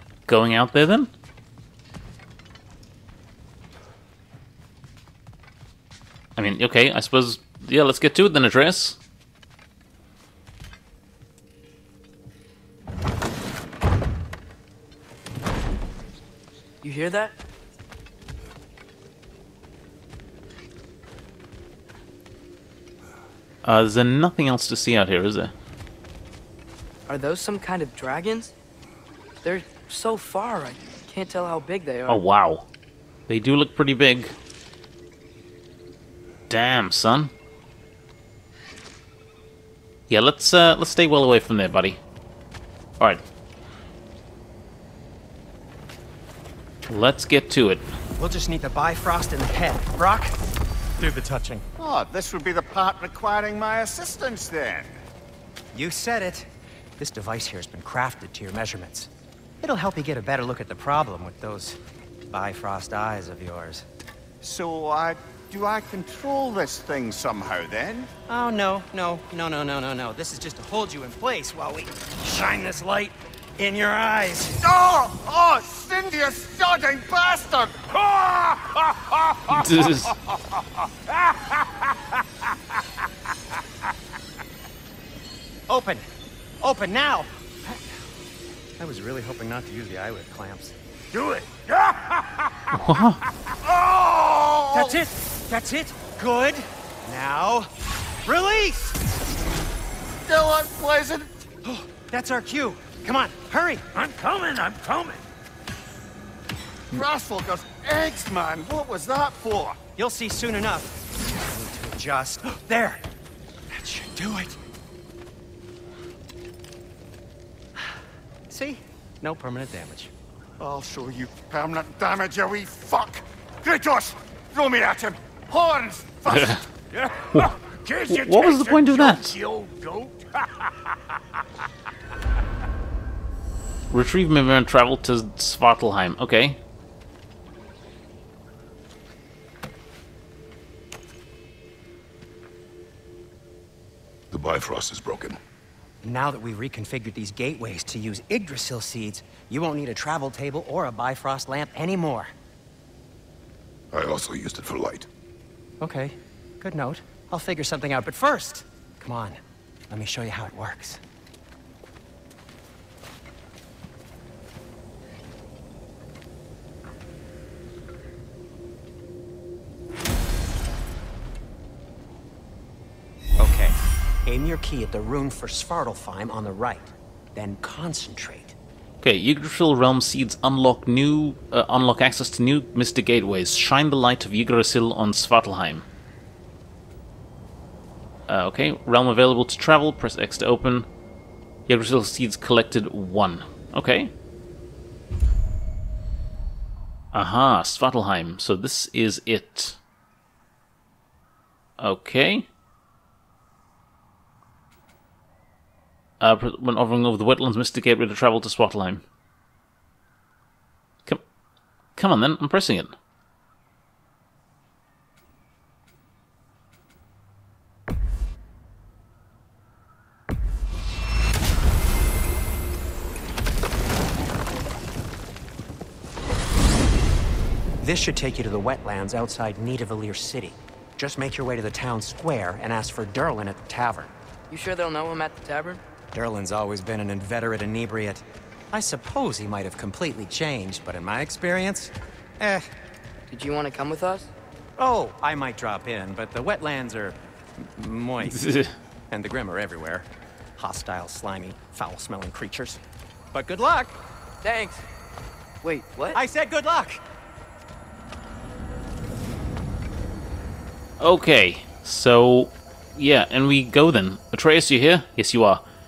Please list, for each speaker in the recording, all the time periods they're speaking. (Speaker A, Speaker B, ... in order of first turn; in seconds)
Speaker A: 0.3-1.1, 6.3-9.0, 23.6-25.5, 32.1-32.7, 33.3-34.3, 36.5-37.3, 40.1-42.0, 46.9-47.9, 79.5-80.2, 92.7-93.2, 126.3-126.6, 128.1-129.3, 133.9-136.6, 179.0-185.8, 188.3-190.9, 191.7-194.1, 197.1-199.8, 201.8-202.5, 206.2-209.0, 211.9-212.9, 248.2-248.7, 261.0-265.6
Speaker B: 16.8-17.3, 27.1-28.5, 29.4-32.2, 234.5-235.8, 243.3-244.3, 254.4-254.8, 255.6-256.2
Speaker C: 48.2-50.4, 51.0-51.7, 55.7-59.1, 59.6-61.8, 62.3-63.9, 68.3-74.6, 85.7-86.0, 86.6-87.8, 88.8-90.8, 94.7-97.7, 98.2-99.0, 101.6-103.8, 110.0-113.0, 113.7-114.6, 118.5-120.1, 146.0-152.3, 155.8-161.0, 173.4-178.6, 227.8-234.1, 236.1-242.7, 244.8-248.4, 249.1-252.8, 253.3-254.0, 256.1-257.0
Speaker D: 51.8-55.0, 64.4-68.1, 74.6-78.3, 93.6-95.0, 100.2-101.4, 106.9-109.8, 120.6-126.6
Speaker E: 78.0-80.4, 81.2-81.8, 91.1-93.0, 103.9-105.2, 126.9-131.2
Speaker F: 144.3-145.4, 153.9-155.1